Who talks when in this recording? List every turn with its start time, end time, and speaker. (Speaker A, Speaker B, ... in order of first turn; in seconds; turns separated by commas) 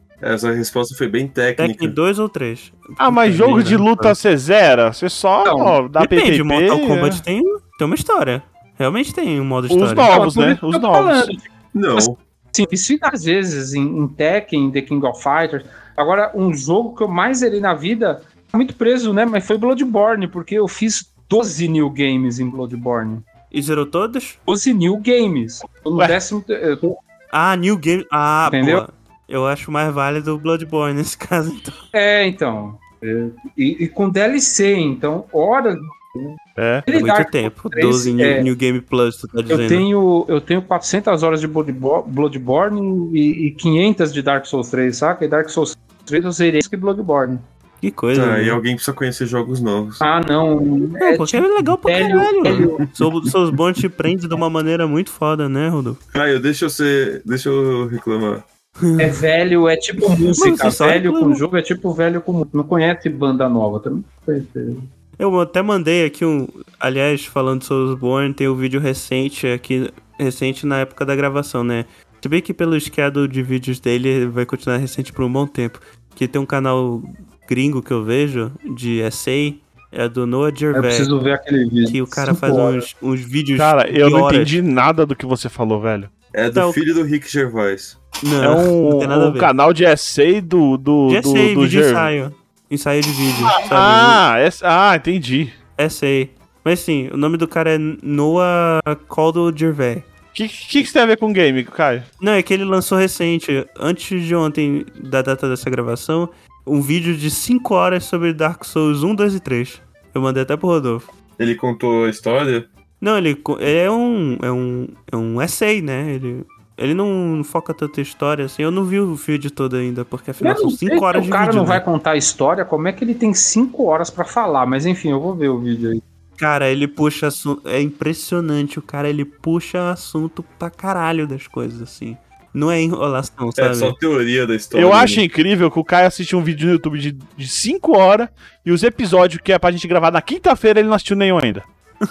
Speaker A: 0.2-1.9, Speaker B: 1.6-4.1, Speaker C: 3.0-7.2, Speaker D: 5.4-5.8, Speaker B: 6.0-10.1, Speaker C: 9.7-11.3, Speaker D: 10.1-23.2, Speaker A: 11.7-12.2, Speaker B: 23.5-24.4, Speaker D: 24.5-27.0, Speaker B: 27.3-31.8, Speaker D: 28.5-28.8, Speaker D: 31.9-38.5, Speaker C: 36.6-36.9, Speaker B: 36.9-39.9, Speaker D: 39.5-47.4, Speaker B: 47.8-48.6, Speaker A: 48.1-50.0, Speaker D: 50.0-52.8, Speaker B: 51.0-56.0, Speaker A: 53.0-53.3, Speaker A: 56.1-58.4, Speaker B: 58.8-59.2, Speaker D: 59.0-64.8, Speaker B: 60.3-61.4, Speaker B: 65.2-81.1, Speaker D: 80.7-82.8, Speaker B: 81.9-84.5, Speaker C: 83.6-86.1, Speaker A: 86.3-88.0, Speaker B: 86.5-86.8, Speaker B: 88.2-89.5, Speaker C: 88.4-92.1, Speaker B: 91.1-94.2, Speaker C: 93.4-95.5, Speaker B: 95.8-100.1, Speaker C: 100.3-102.1, Speaker B: 102.2-111.0, Speaker A: 111.4-112.7, Speaker B: 113.0-121.8, Speaker D: 120.4-126.0, Speaker B: 126.4-133.9, Speaker A: 133.6-135.2, Speaker C: 134.7-141.7